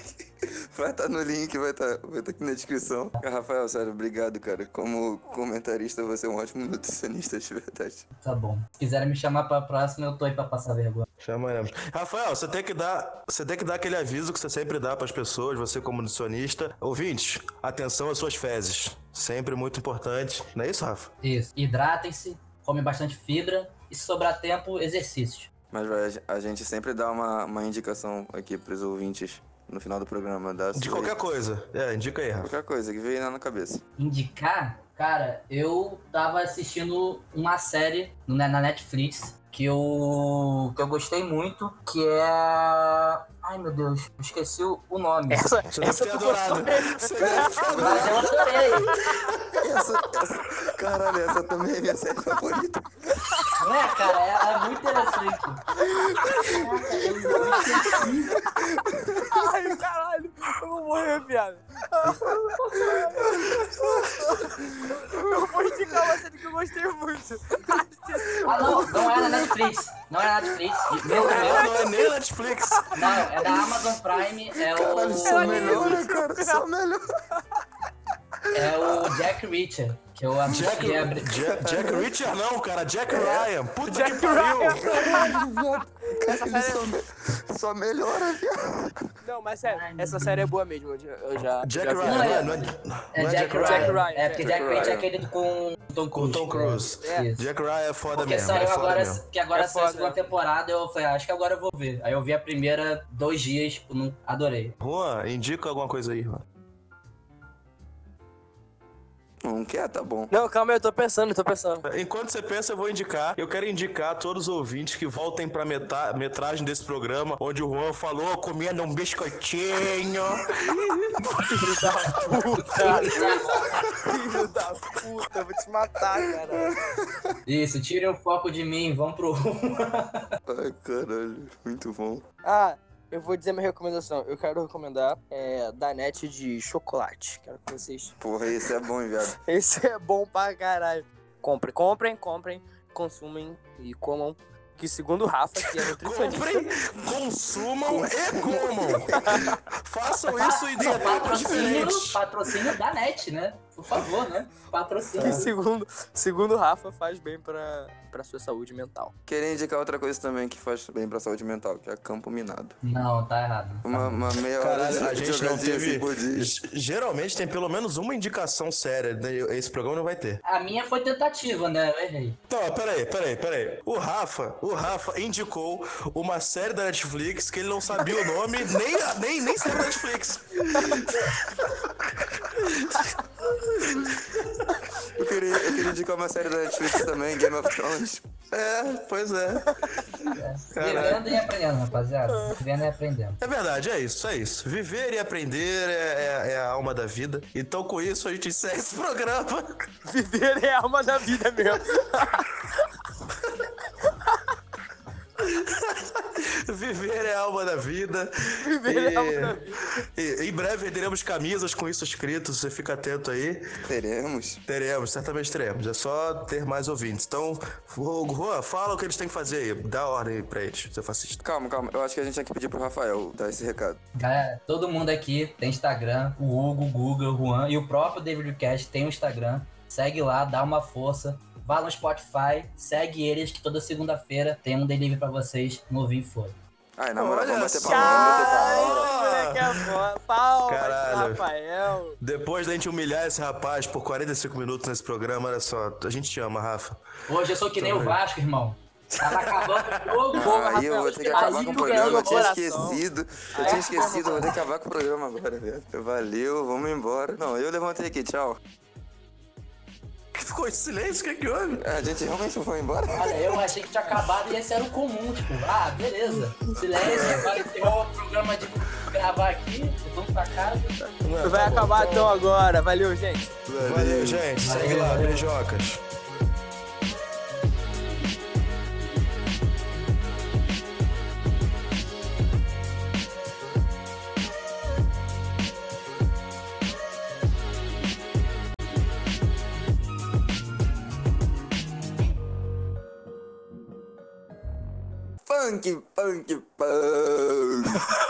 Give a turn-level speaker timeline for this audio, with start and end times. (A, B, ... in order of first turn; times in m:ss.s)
0:00.4-0:08.0 A
0:08.2-0:11.1 B
0:11.2-0:21.1 C
0:21.2-0:25.5 B
0:25.7-0:31.1 A
0:30.7-0:32.5 C
0:32.4-0:33.8 A
0:34.0-0:45.5 B
0:45.3-0:49.3 D
0:45.7-0:49.6 C
0:47.5-0:48.2 A
0:47.7-0:49.0 B
0:49.6-0:52.8 A
0:53.6-0:55.6 B
0:55.9-0:56.5 D
0:55.9-0:56.7 A
0:56.3-0:58.5 B
0:57.3-0:58.1 D
0:58.7-0:59.5 A
0:59.3-1:09.5 D
1:02.0-1:03.0 B
1:03.4-1:06.0 A
1:08.4-1:11.8 B
1:08.5-1:09.7 A
1:11.0-1:13.4 D
1:11.1-1:13.1 C
1:12.9-1:16.0 B
1:13.4-1:13.7 A
1:14.5-1:17.0 A
1:15.2-1:16.6 D
1:18.5-1:21.4 B
1:20.5-1:24.9 C
1:21.3-1:22.1 A
1:23.1-1:23.4 B
1:23.8-1:25.5 D
1:24.7-1:28.9 A
1:26.2-1:26.9 D
1:29.2-1:32.5 D
1:29.6-1:30.5 B
1:31.6-1:34.0 C
1:32.0-1:37.5 B
1:33.6-1:35.0 D
1:34.4-1:35.0 A
1:36.1-1:39.2 C
1:38.1-1:44.8 B
1:39.5-1:40.3 D
1:44.8-1:46.4 C
1:49.4-1:50.3 A
1:50.3-1:51.8 D
1:51.8-2:01.9 C
2:01.3-2:06.8 D
2:02.3-2:03.7 B
2:06.7-2:07.3 A
2:07.5-2:10.3 B
2:10.4-2:12.2 A
2:12.4-2:18.2 D
2:18.2-2:19.3 A
2:19.3-2:26.8 D
2:25.9-2:32.2 C
2:27.8-2:29.5 A
2:29.1-2:29.5 D
2:30.3-2:35.5 B
2:35.2-2:39.1 D
2:39.3-2:42.8 A
2:42.8-2:44.2 B
2:43.8-2:46.5 A
2:44.6-2:50.4 C
2:50.4-2:52.4 B
2:52.5-3:04.9 C
3:05.1-3:08.2 A
3:08.5-3:11.5 C
3:10.3-3:13.4 B
3:12.3-3:12.6 D
3:13.4-3:19.9 C
3:20.0-3:22.8 D
3:25.4-3:33.7 C
3:28.6-3:30.0 D
3:33.9-3:34.6 A
3:34.6-3:41.4 C
3:41.4-3:44.0 A
3:44.1-3:56.6 B
3:57.0-3:59.1 A
3:57.2-4:00.0 C
3:57.8-4:02.2 D
4:00.7-4:01.5 C
4:02.2-4:07.0 C
4:07.3-4:12.5 B
4:07.7-4:08.2 C
4:09.1-4:10.3 C
4:10.3-4:18.6 A
4:11.3-4:13.0 D
4:13.5-4:14.6 D
4:13.6-4:14.4 B
4:20.3-4:22.0 C
4:21.8-4:23.3 A
4:23.1-4:31.0 B
4:27.0-4:27.4 A
4:31.2-4:32.5 C
4:31.4-4:33.6 D
4:33.7-4:34.4 A
4:33.8-4:36.0 C
4:34.6-4:35.5 B
4:55.4-4:58.1 A